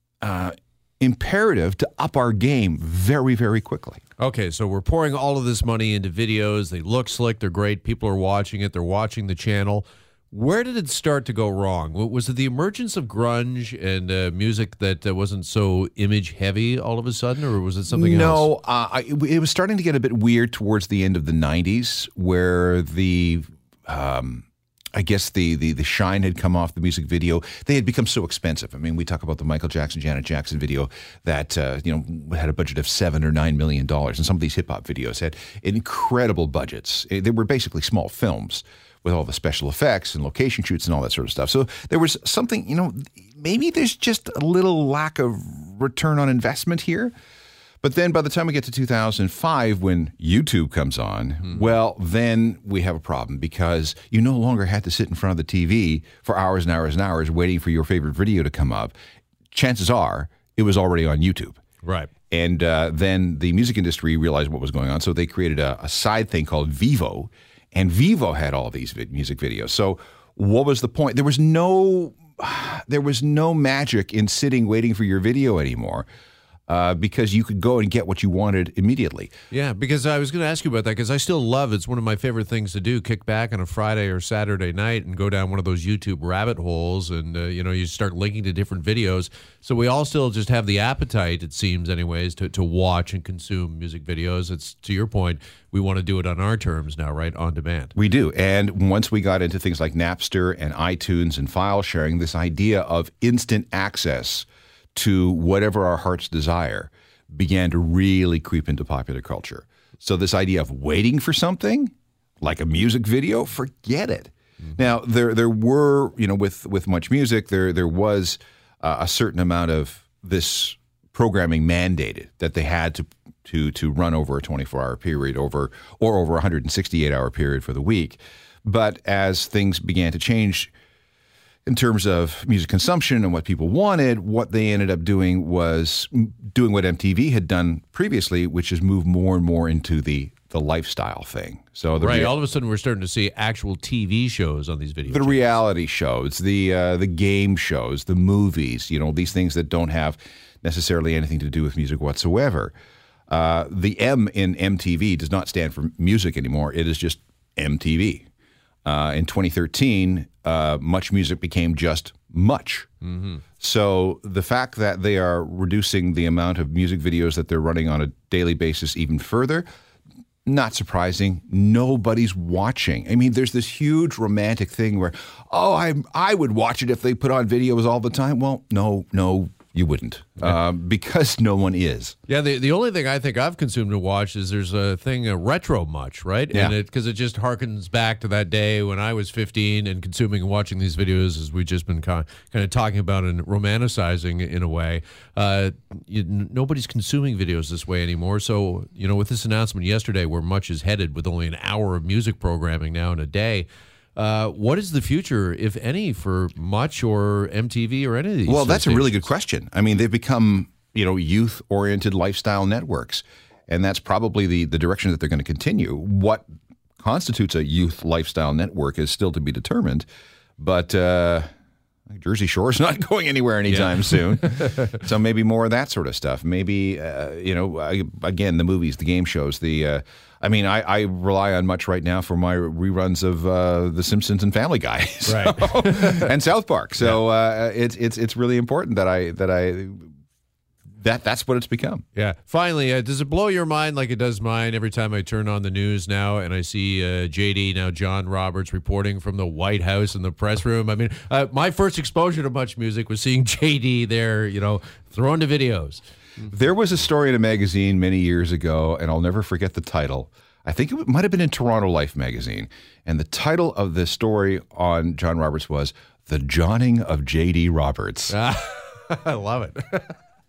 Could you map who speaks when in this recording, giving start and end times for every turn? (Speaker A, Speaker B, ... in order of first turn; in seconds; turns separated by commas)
Speaker A: 0.2-4.0, Speaker B: 4.2-18.5, Speaker A: 17.9-47.1, Speaker A: 47.8-58.9, Speaker A: 59.5-61.6, Speaker B: 61.8-62.1, Speaker A: 62.3-76.0, Speaker A: 76.7-79.3, Speaker B: 79.5-97.9, Speaker A: 98.0-130.7, Speaker A: 131.7-142.3, Speaker B: 142.0-145.4, Speaker A: 145.1-152.7, Speaker A: 153.3-158.2, Speaker A: 158.8-162.9, Speaker B: 163.1-163.4, Speaker A: 163.6-169.7, Speaker A: 170.4-182.1, Speaker B: 182.3-209.3, Speaker A: 208.5-216.4, Speaker A: 217.0-220.1, Speaker A: 220.6-221.5, Speaker A: 222.1-240.1, Speaker B: 223.7-224.9, Speaker B: 235.2-236.3, Speaker A: 241.0-242.0, Speaker B: 242.2-256.0, Speaker A: 256.4-268.3, Speaker B: 268.3-270.2